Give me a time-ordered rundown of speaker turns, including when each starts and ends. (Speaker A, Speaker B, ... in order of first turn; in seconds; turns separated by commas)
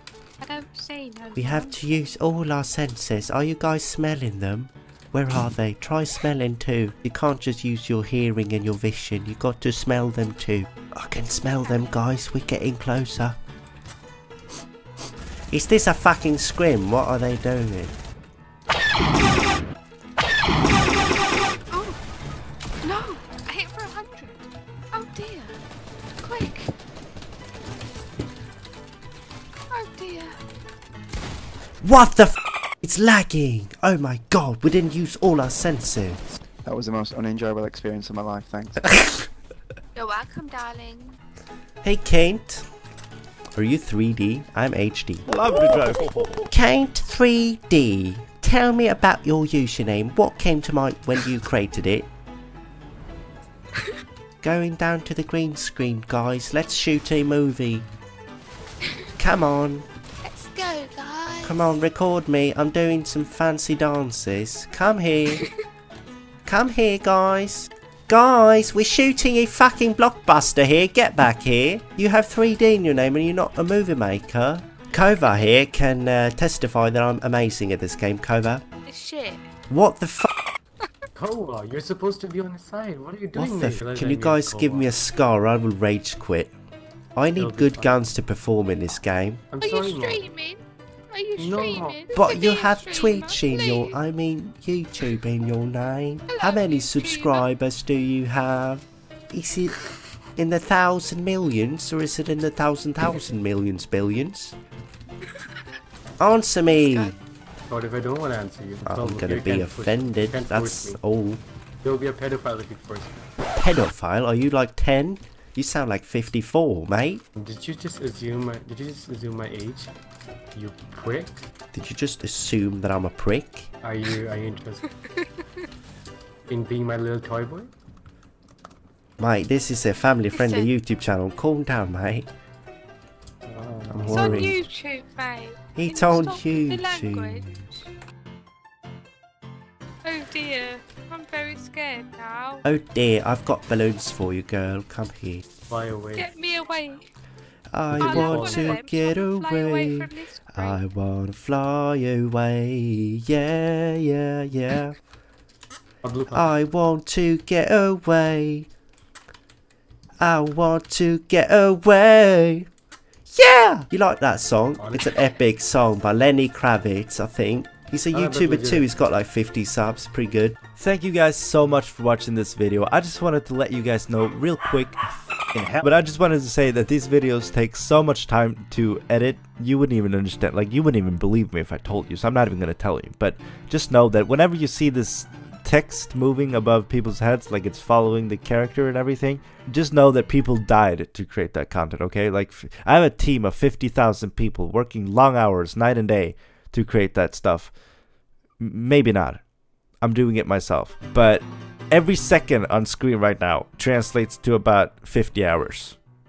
Speaker A: 0.4-1.8, Speaker B: 1.4-13.4, Speaker B: 15.5-18.0, Speaker A: 21.7-22.0, Speaker A: 22.8-25.6, Speaker A: 26.2-26.7, Speaker A: 29.7-30.4, Speaker B: 31.8-36.2, Speaker C: 36.6-38.8, Speaker B: 38.9-39.3, Speaker A: 40.0-41.2, Speaker B: 41.8-42.7, Speaker B: 43.5-45.3, Speaker D: 45.3-46.5, Speaker B: 46.5-52.1, Speaker B: 54.4-57.9, Speaker B: 59.2-59.9, Speaker A: 60.2-61.8, Speaker B: 61.4-65.5, Speaker B: 66.5-78.6, Speaker A: 78.9-79.5, Speaker B: 79.7-80.3, Speaker E: 81.2-84.9, Speaker B: 83.3-86.5, Speaker B: 87.2-89.4, Speaker E: 87.3-88.0, Speaker E: 89.5-90.2, Speaker A: 89.6-94.0, Speaker E: 91.4-92.0, Speaker B: 92.1-99.8, Speaker A: 96.3-97.4, Speaker B: 100.4-104.5, Speaker B: 106.2-107.2, Speaker A: 106.7-107.2, Speaker E: 107.7-111.0, Speaker B: 108.8-111.4, Speaker E: 111.8-113.2, Speaker B: 113.5-117.2, Speaker E: 117.4-120.0, Speaker E: 120.5-121.4, Speaker B: 121.7-123.7, Speaker E: 123.8-124.9, Speaker A: 124.9-125.7, Speaker E: 126.5-127.7, Speaker B: 129.2-132.3, Speaker A: 130.3-130.7, Speaker E: 133.4-134.5, Speaker B: 133.9-134.6, Speaker A: 134.1-137.5, Speaker B: 135.8-137.8, Speaker A: 140.0-142.6, Speaker B: 142.7-145.4, Speaker E: 145.7-146.3, Speaker A: 146.2-147.1, Speaker B: 147.7-155.0, Speaker E: 147.9-148.8, Speaker A: 148.0-150.8, Speaker E: 156.0-156.6, Speaker B: 156.3-158.7, Speaker B: 160.2-162.7, Speaker B: 163.3-170.6, Speaker E: 164.8-165.1, Speaker E: 168.1-168.9, Speaker D: 170.8-175.0, Speaker D: 175.5-197.7, Speaker D: 198.6-199.4, Speaker D: 200.0-206.0